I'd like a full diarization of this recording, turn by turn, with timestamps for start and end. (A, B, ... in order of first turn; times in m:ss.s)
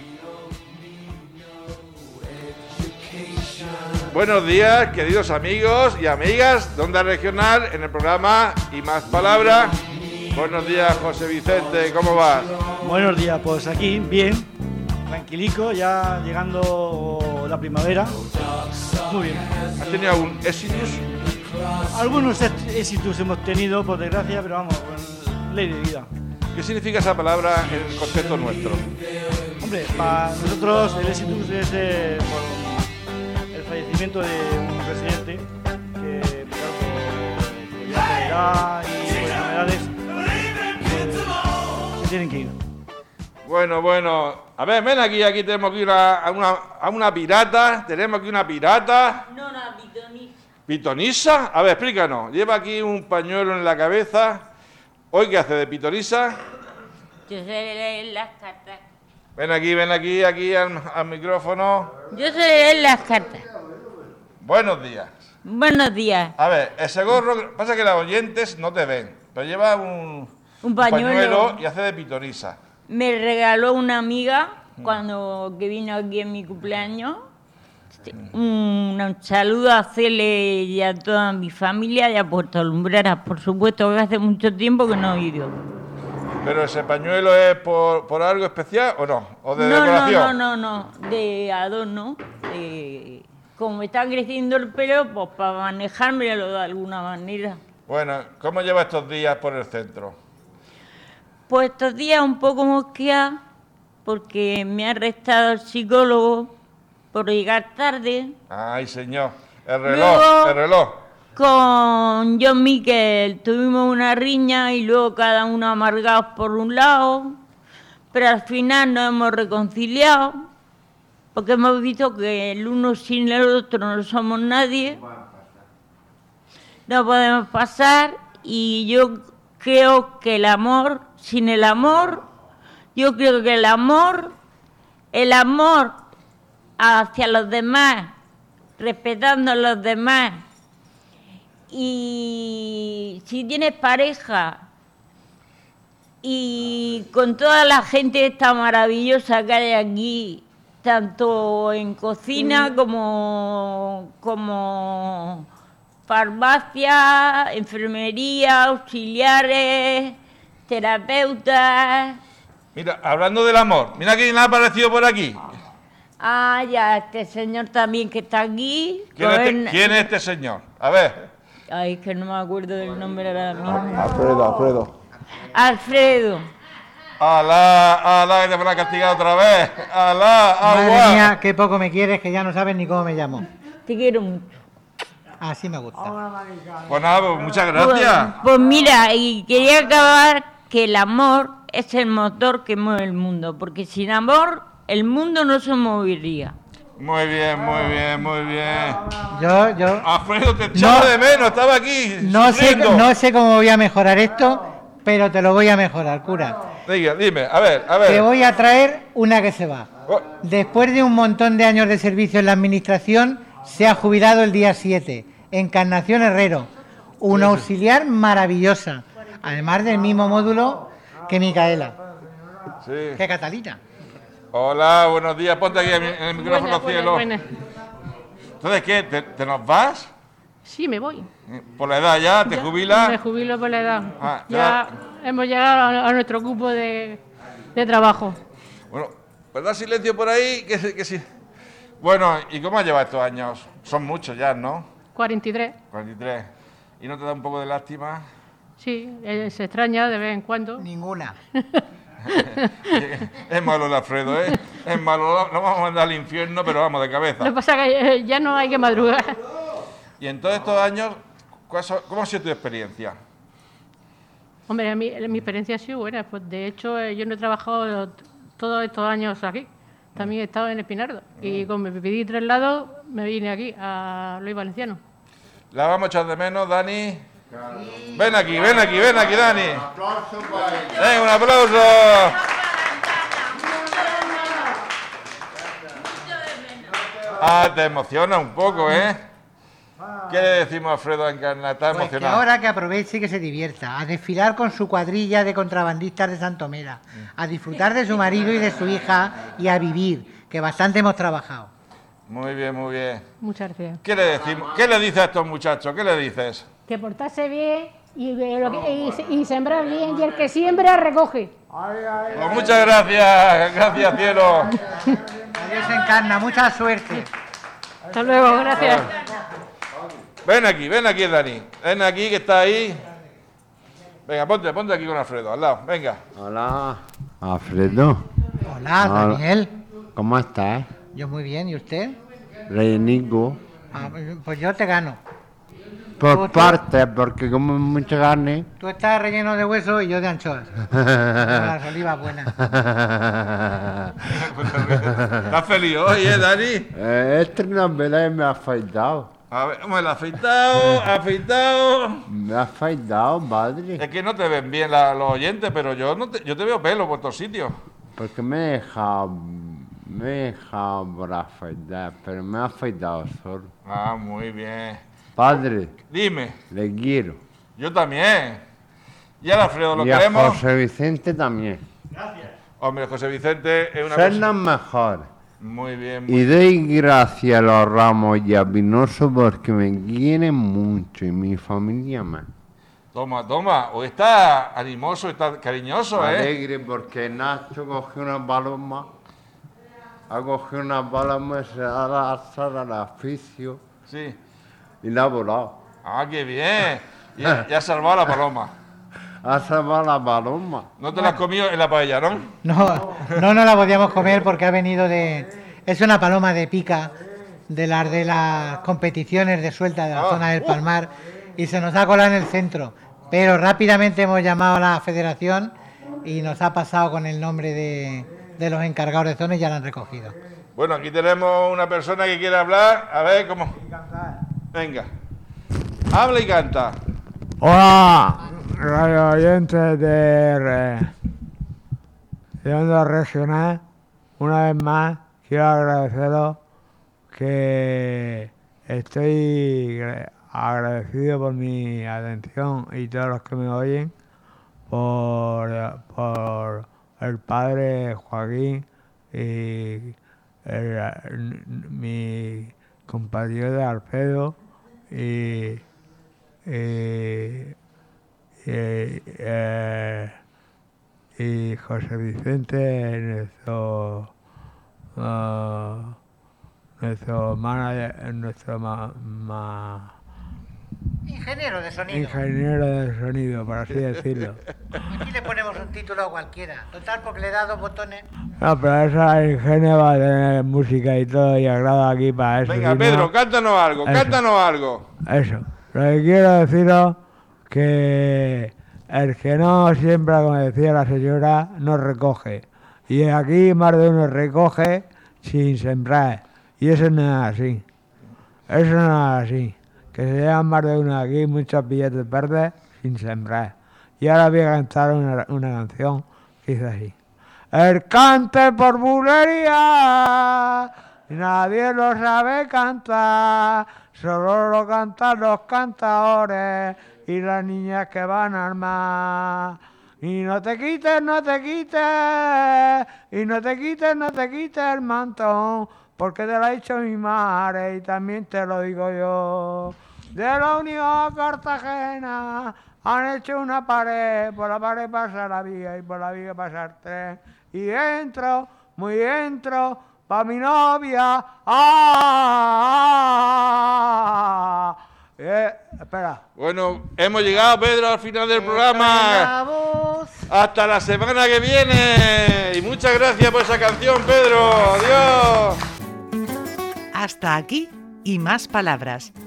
0:04.1-0:09.8 A
0:10.3-0:12.5 A
0:12.7-0:14.5 B
0:15.1-0:18.2 B
0:19.1-0:19.5 B
0:19.8-0:21.1 A
0:21.9-0:26.1 B
0:26.5-0:28.9 A
0:29.6-0:32.9 B
0:33.5-0:42.6 B
0:43.4-0:49.3 A
0:49.3-0:50.4 C
0:50.7-0:54.4 A
0:55.1-0:56.4 A
0:57.3-0:58.8 C
0:59.4-1:01.9 A
1:02.1-1:03.4 C
1:04.4-1:05.1 A
1:05.4-1:06.4 C
1:06.4-1:12.6 A
1:10.6-1:11.6 C
1:12.9-1:17.2 C
1:18.1-1:25.6 C
1:26.4-1:30.4 A
1:29.6-1:37.6 C
1:37.9-1:40.2 A
1:41.5-1:43.4 C
1:44.0-1:46.5 C
1:47.1-1:48.4 C
1:48.5-1:51.0 A
1:49.9-1:50.6 C
1:51.4-1:57.4 C
1:58.1-2:00.4 C
2:01.3-2:05.0 C
2:06.9-2:12.2 C
2:13.0-2:14.4 C
2:15.1-2:16.0 C
2:16.8-2:18.1 C
2:18.8-2:20.4 C
2:21.7-2:24.6 C
2:26.2-2:35.5 C
2:36.1-2:40.2 C
2:40.7-2:42.2 C
2:42.8-2:45.4 A
2:46.2-2:50.1 C
2:49.2-2:51.3 A
2:51.7-2:53.9 C
2:53.7-2:54.9 A
2:55.5-2:56.5 C
2:57.2-3:01.3 A
3:00.6-3:03.4 D
3:03.9-3:04.6 C
3:05.4-3:06.1 D
3:06.0-3:07.5 E
3:06.9-3:08.4 A
3:07.8-3:16.6 C
3:17.0-3:19.1 A
3:19.3-3:20.1 D
3:20.0-3:23.1 A
3:20.7-3:21.1 D
3:22.2-3:26.6 D
3:26.9-3:28.3 A
3:28.0-3:29.9 D
3:30.4-3:36.7 D
3:37.2-3:42.0 D
3:42.8-3:43.2 A
3:43.2-3:43.8 D
3:44.5-3:47.3 A
3:46.3-3:47.5 F
3:48.6-3:50.1 A
3:50.6-3:51.3 F
3:51.5-3:53.2 A
3:52.4-3:57.2 F
3:54.2-3:54.8 A
3:57.8-3:58.4 F
3:58.9-4:01.3 A
4:02.0-4:04.9 A
4:05.2-4:05.8 F
4:05.9-4:06.5 A
4:07.0-4:08.2 A
4:08.8-4:10.8 F
4:10.8-4:11.4 D
4:12.3-4:17.5 A
4:17.4-4:19.4 F
4:20.2-4:23.2 A
4:24.7-4:35.0 F
4:35.7-4:37.2 A
4:37.7-4:38.5 G
4:38.1-4:39.9 A
4:39.1-4:41.1 G
4:40.9-4:42.5 A
4:42.9-4:44.5 C
4:47.4-4:49.2 A
4:50.3-4:52.4 A
4:51.9-5:01.7 D
5:02.3-5:03.2 A
5:03.4-5:04.0 F
5:04.0-5:06.7 A
5:06.9-5:11.5 H
5:12.0-5:12.3 E
5:12.3-5:14.8 A
5:15.5-5:17.3 D
5:18.1-5:19.1 F
5:20.4-5:23.0 A
5:24.3-5:26.2 A
5:26.4-5:28.2 G
5:28.7-5:29.7 D
5:29.0-5:29.4 G
5:30.2-5:30.9 G
5:31.1-5:32.2 D
5:32.7-5:33.6 G
5:33.9-5:35.2 D
5:36.2-5:38.7 G
5:36.3-5:36.8 D
5:38.8-5:40.8 D
5:40.9-5:41.5 G
5:41.4-5:42.5 D
5:42.6-5:44.2 G
5:44.3-5:46.9 A
5:44.9-5:45.3 G
5:46.9-5:49.3 G
5:49.5-5:52.2 A
5:52.3-5:54.0 G
5:54.0-5:57.8 A
5:58.2-6:03.7 G
6:03.8-6:05.0 A
6:05.4-6:05.9 G
6:06.1-6:06.6 A
6:06.7-6:07.4 G
6:07.8-6:08.6 A
6:09.4-6:10.6 A
6:09.9-6:11.8 G
6:12.8-6:14.5 A
6:14.0-6:15.3 G
6:15.6-6:16.5 A
6:16.3-6:22.5 G
6:23.1-6:26.5 A
6:26.2-6:29.1 G
6:30.3-6:33.8 G
6:34.1-6:34.4 A
6:35.0-6:35.8 G
6:36.0-6:38.7 A
6:39.4-6:40.9 G
6:41.0-6:42.6 A
6:42.6-6:47.2 D
6:47.7-7:00.4 D
6:50.1-6:50.7 A
7:00.8-7:03.8 A
7:03.8-7:04.4 E
7:04.7-7:05.1 A
7:06.1-7:07.0 A
7:07.6-7:11.1 E
7:12.6-7:13.8 E
7:14.4-7:16.6 E
7:17.3-7:24.1 E
7:24.9-7:34.6 E
7:35.1-7:35.8 E
7:36.6-7:37.8 E
7:38.6-7:40.4 E
7:41.4-7:44.3 E
7:45.2-7:46.2 E
7:47.0-7:50.1 E
7:51.3-7:52.4 D
7:52.1-7:54.6 E
7:55.1-7:58.2 D
7:58.6-8:03.3 E
8:02.7-8:05.0 A
8:04.0-8:04.4 E
8:05.3-8:07.2 E
8:07.7-8:17.8 E
8:18.7-8:27.1 E
8:27.7-9:04.0 E
9:05.4-9:06.4 E
9:06.6-9:09.5 A
9:08.5-9:10.4 D
9:10.5-9:15.8 A
9:17.1-9:19.3 I